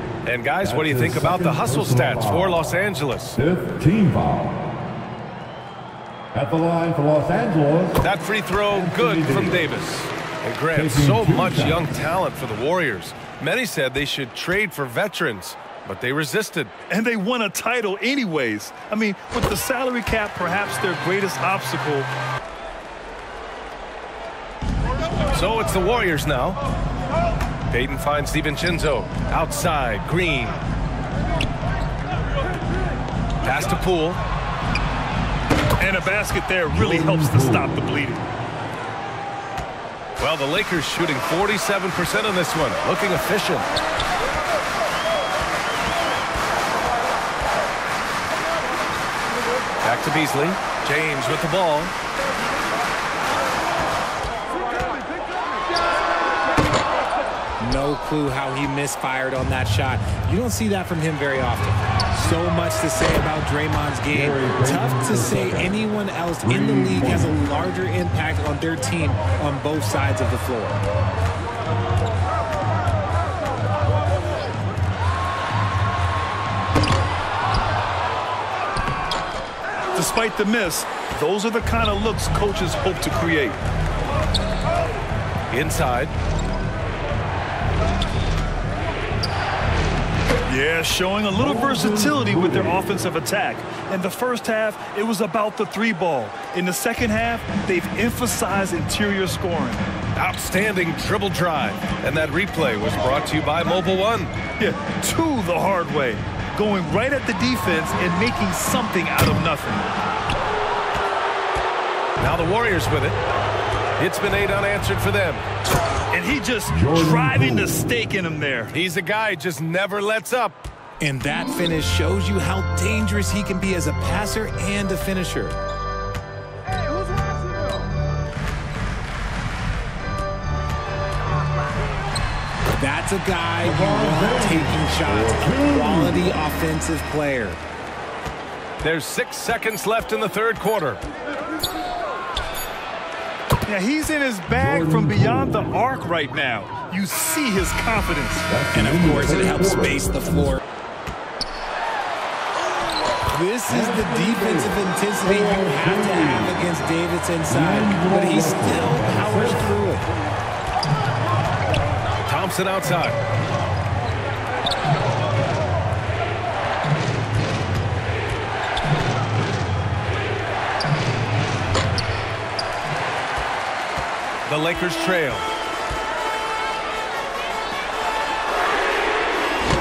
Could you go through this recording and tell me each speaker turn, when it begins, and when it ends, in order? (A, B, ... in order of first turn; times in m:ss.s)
0:00.2-0:03.4 A
0:00.6-0:02.6 B
0:03.4-0:04.6 B
0:06.3-0:08.0 B
0:08.0-0:16.7 A
0:08.7-0:09.7 B
0:10.7-0:11.9 B
0:16.9-0:22.1 C
0:25.3-0:26.6 A
0:27.7-0:30.6 A
0:33.4-0:34.2 A
0:35.8-0:38.3 C
0:36.7-0:37.7 B
0:40.2-0:43.7 A
0:49.8-0:51.9 A
0:57.6-1:10.8 D
1:04.1-1:05.7 B
1:06.4-1:07.4 B
1:19.9-1:23.6 C
1:25.5-1:26.1 A
1:30.5-1:39.9 C
1:31.4-1:32.8 B
1:40.2-1:44.3 A
1:44.6-1:49.9 C
1:52.2-1:53.2 A
1:54.0-1:55.4 A
1:56.1-1:58.7 C
1:56.7-1:57.7 B
1:58.7-2:00.6 A
2:01.0-2:05.6 D
2:12.7-2:17.6 D
2:13.6-2:16.4 B
2:18.8-2:21.0 A
2:23.7-2:28.5 C
2:24.6-2:25.6 B
2:28.5-2:30.5 B
2:28.7-2:30.6 D
2:33.3-2:40.1 D
2:33.7-2:36.6 B
2:37.5-2:39.7 B
2:42.3-2:43.2 A
2:54.4-2:55.5 A